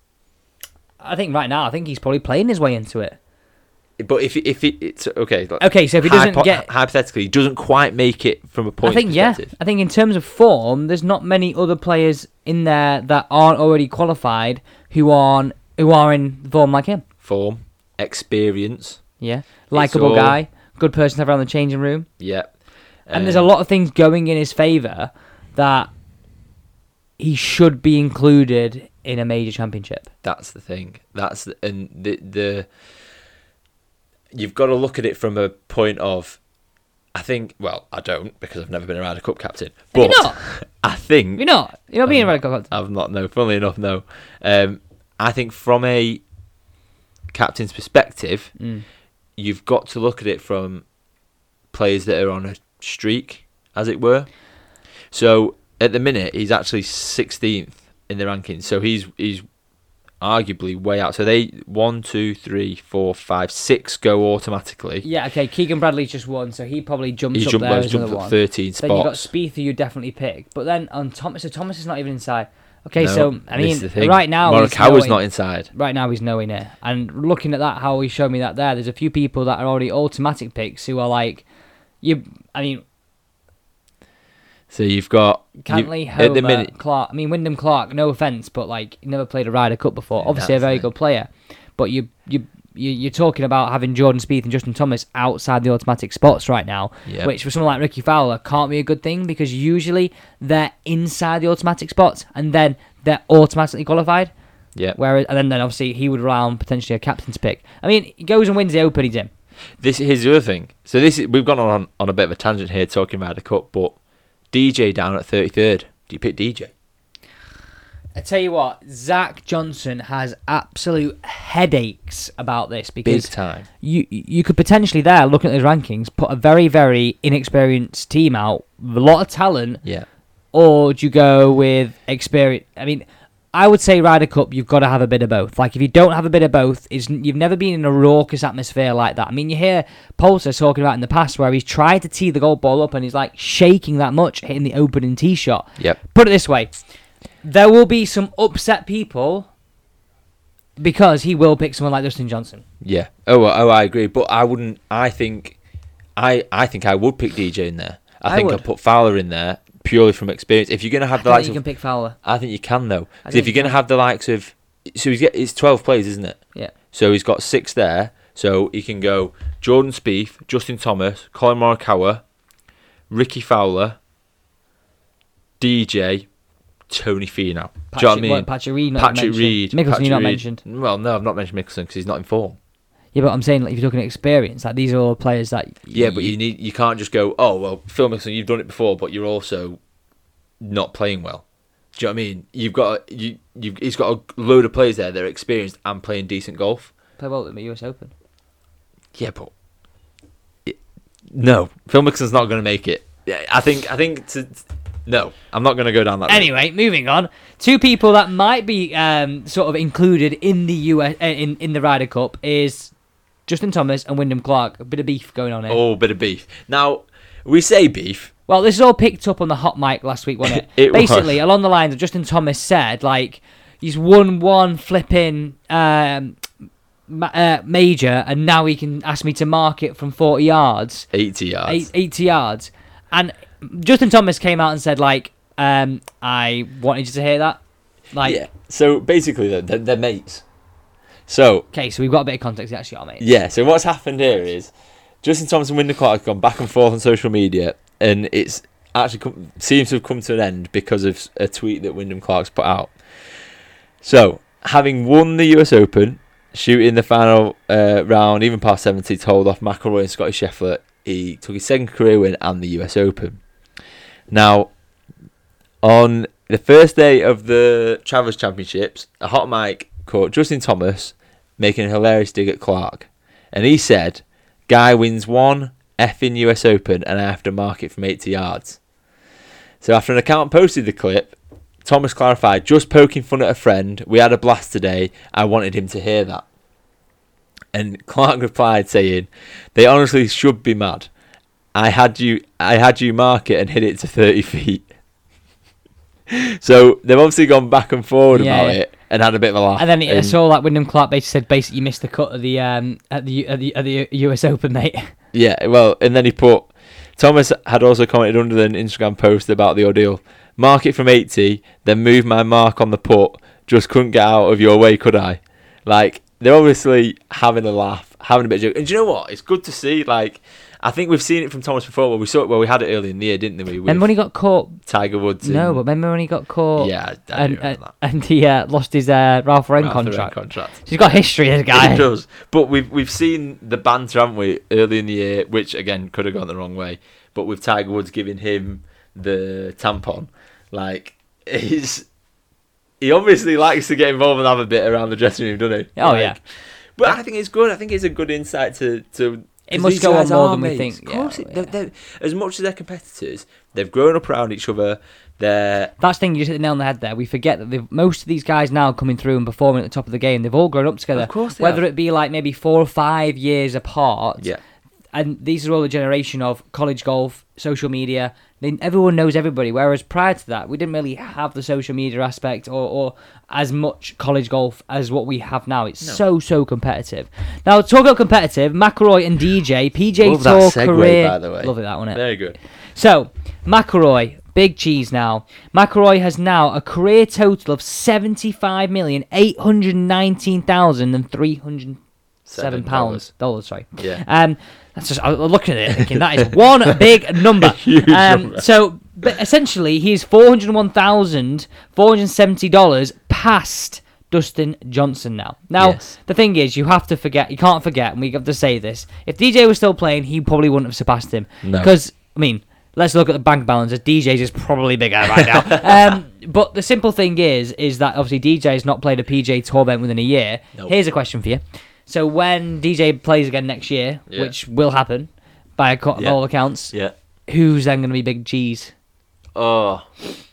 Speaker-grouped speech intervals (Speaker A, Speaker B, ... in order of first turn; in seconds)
Speaker A: 1.0-3.2, 5.6-6.7, 8.8-17.0, 19.2-22.1, 23.1-25.9, 27.2-30.1, 39.9-40.4, 41.4-42.7, 48.6-48.8, 65.0-81.4, 82.0-82.8, 85.6-104.3, 104.9-109.3, 118.2-129.8, 130.5-146.8, 147.4-149.5, 150.8-152.6, 158.3-158.6, 161.2-162.2, 163.2-163.7, 177.9-180.6, 183.1-186.3, 197.2-198.1, 206.3-212.9, 213.5-215.8, 218.5-226.4, 227.1-231.1, 231.7-237.6, 238.1-238.4, 241.7-243.3, 298.3-298.8, 299.8-305.1, 323.9-324.8, 325.4-332.1, 346.0-346.4, 349.7-351.7, 356.0-364.5, 365.1-392.0, 392.5-428.9
Speaker B: 4.0-9.5, 17.2-19.0, 19.7-20.4, 22.2-22.5, 23.1-23.5, 30.2-32.7, 34.3-36.4, 37.1-41.4, 42.0-46.2, 47.3-48.5, 49.4-50.9, 51.7-54.3, 55.1-59.4, 60.2-65.0, 67.3-69.3, 73.0-75.7, 84.7-86.7, 90.2-90.9, 97.0-97.3, 109.8-114.0, 114.5-116.7, 123.0-123.7, 152.8-155.6, 156.2-161.6, 162.2-166.4, 166.9-172.2, 173.1-174.0, 175.6-176.3, 176.9-182.6, 185.9-189.8, 190.6-191.4, 191.9-196.9, 199.1-199.5, 201.3-206.5, 215.7-218.3, 220.4-221.4, 231.1-231.9, 238.2-240.4, 241.3-241.7, 243.2-253.3, 254.0-263.4, 264.3-264.7, 265.8-278.8, 279.8-286.4, 287.7-291.1, 291.7-294.9, 296.3-300.4, 305.3-324.1, 324.8-325.8, 326.8-327.9, 329.8-342.1, 343.0-355.9, 361.1-361.8, 380.2-382.6, 392.4-393.3, 394.0-394.2, 397.4-398.6, 405.8-406.1, 411.6-411.9, 415.5-415.8, 424.3-424.5, 429.5-430.1